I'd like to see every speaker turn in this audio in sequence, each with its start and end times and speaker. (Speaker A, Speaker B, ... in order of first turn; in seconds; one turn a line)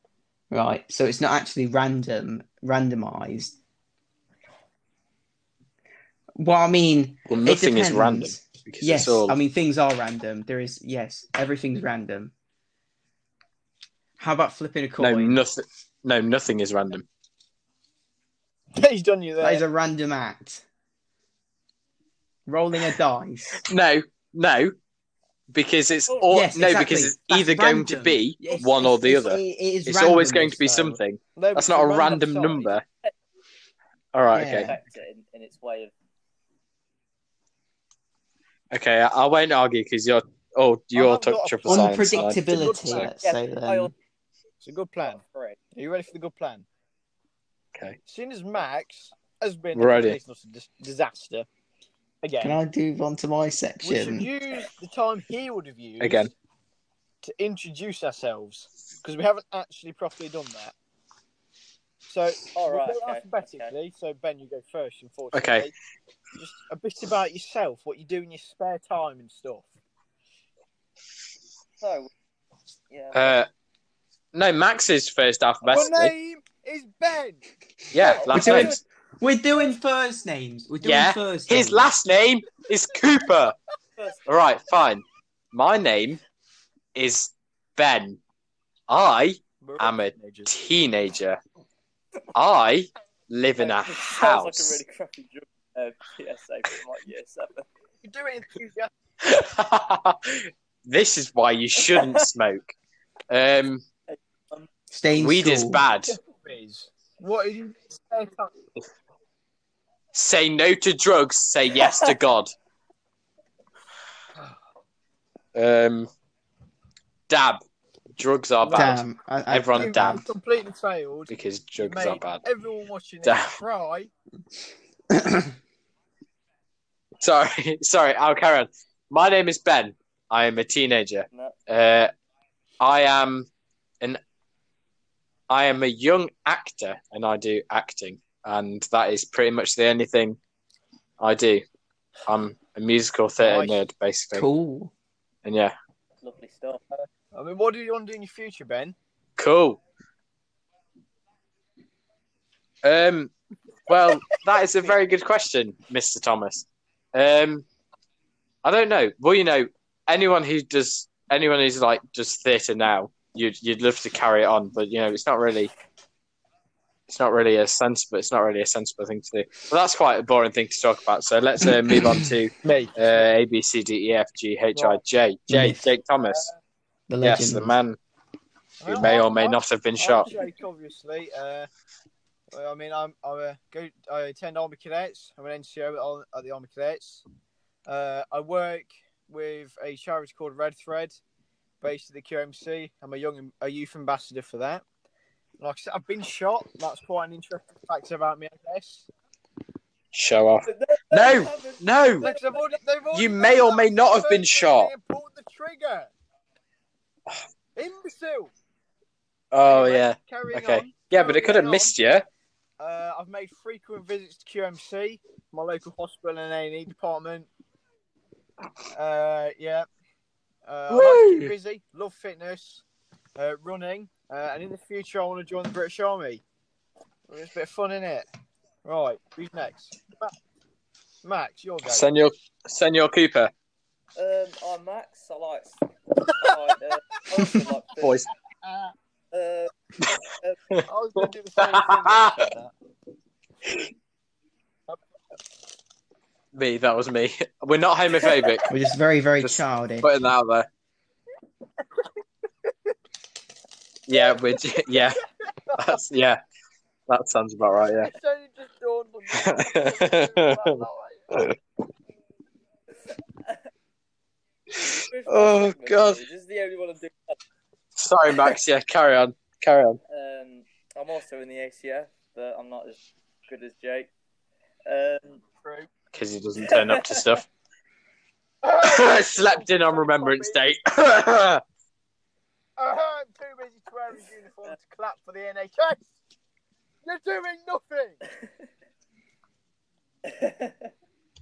Speaker A: 0.5-3.5
Speaker A: 6.3-12.3
Speaker B: 7.3-9.3
Speaker A: 14.2-15.4
Speaker B: 15.0-17.1
Speaker C: 18.8-19.6
Speaker A: 19.4-20.6
Speaker A: 22.5-23.6
Speaker B: 23.6-24.8
Speaker B: 25.5-32.9
Speaker D: 26.1-26.4
Speaker A: 26.3-31.0
Speaker C: 31.4-32.7
Speaker B: 34.1-34.7
Speaker A: 34.3-34.8
Speaker D: 34.6-35.9
Speaker B: 38.7-42.4
Speaker C: 41.0-43.1
Speaker A: 41.7-43.9
Speaker D: 43.1-43.9
Speaker C: 44.6-45.2
Speaker D: 45.0-45.6
Speaker C: 45.8-46.6
Speaker C: 48.1-51.5
Speaker B: 49.7-50.2
Speaker C: 52.2-52.6
Speaker A: 52.4-54.3
Speaker C: 53.8-56.3
Speaker B: 56.0-56.3
Speaker C: 57.2-60.7
Speaker C: 62.1-65.7
Speaker D: 62.5-63.7
Speaker B: 65.3-65.7
Speaker C: 66.4-69.7
Speaker D: 71.8-72.1
Speaker D: 72.9-73.4
Speaker B: 73.1-73.5
Speaker B: 74.3-76.1
Speaker D: 75.7-75.9
Speaker C: 75.7-77.4
Speaker B: 77.9-78.8
Speaker C: 78.0-78.5
Speaker D: 78.0-78.8
Speaker A: 78.3-81.9
Speaker B: 80.8-83.5
Speaker D: 84.0-84.7
Speaker B: 84.3-86.2
Speaker B: 87.0-88.2
Speaker B: 88.9-91.4
Speaker C: 89.6-90.5
Speaker B: 92.3-94.8
Speaker D: 93.6-97.7
Speaker C: 98.0-98.9
Speaker B: 99.2-102.8
Speaker D: 101.8-102.2
Speaker B: 103.3-103.8
Speaker D: 104.1-104.7
Speaker A: 104.9-105.8
Speaker B: 105.1-106.2
Speaker C: 106.1-108.5
Speaker B: 110.1-112.5
Speaker D: 111.8-112.1
Speaker B: 115.5-116.1
Speaker B: 117.3-117.6
Speaker B: 118.2-120.2
Speaker C: 118.6-119.0
Speaker A: 118.7-120.3
Speaker C: 119.8-124.1
Speaker B: 121.3-122.4
Speaker B: 123.2-123.6
Speaker A: 125.1-125.5
Speaker B: 127.2-132.1
Speaker B: 132.8-133.5
Speaker B: 135.5-140.4
Speaker B: 141.2-141.7
Speaker B: 142.3-144.5
Speaker C: 143.4-143.8
Speaker A: 144.3-144.9
Speaker B: 145.4-145.8
Speaker D: 146.2-146.8
Speaker C: 147.3-149.0
Speaker B: 149.4-149.8
Speaker B: 152.8-153.3
Speaker B: 153.9-157.7
Speaker B: 158.6-165.7
Speaker B: 167.1-176.5
Speaker A: 171.9-172.2
Speaker C: 172.6-173.2
Speaker C: 174.7-175.0
Speaker A: 175.5-175.9
Speaker C: 176.2-176.6
Speaker A: 177.1-177.7
Speaker B: 177.2-178.0
Speaker C: 178.8-181.7
Speaker B: 178.8-180.3
Speaker C: 182.5-187.2
Speaker C: 187.9-191.2
Speaker C: 191.8-194.8
Speaker C: 195.6-199.1
Speaker B: 200.1-202.3
Speaker D: 200.7-202.7
Speaker C: 202.2-206.1
Speaker B: 203.1-204.9
Speaker C: 207.8-208.5
Speaker B: 209.5-212.3
Speaker C: 209.7-212.0
Speaker C: 212.8-217.5
Speaker C: 218.9-219.9
Speaker C: 220.7-222.8
Speaker B: 220.9-221.5
Speaker C: 223.4-226.4
Speaker C: 227.3-228.3
Speaker C: 228.8-230.3
Speaker C: 231.2-232.1
Speaker B: 231.8-233.5
Speaker D: 234.2-235.8
Speaker D: 236.4-238.2
Speaker B: 238.0-238.3
Speaker C: 238.6-238.9
Speaker D: 239.3-239.7
Speaker C: 240.9-242.7
Speaker B: 241.6-242.4
Speaker B: 246.6-248.7
Speaker A: 248.7-250.1
Speaker B: 249.4-250.7
Speaker B: 254.1-255.2
Speaker C: 254.1-256.0
Speaker B: 255.8-256.4
Speaker B: 257.1-258.1
Speaker C: 258.0-261.4
Speaker B: 259.3-261.6
Speaker D: 264.8-267.4
Speaker B: 265.3-266.2
Speaker B: 268.0-270.0
Speaker D: 270.1-274.1
Speaker D: 274.9-275.4
Speaker C: 275.6-275.9
Speaker B: 276.1-277.4
Speaker D: 276.7-277.2
Speaker C: 278.6-280.6
Speaker B: 278.8-281.6
Speaker C: 282.8-286.1
Speaker C: 287.0-288.2
Speaker D: 290.2-290.9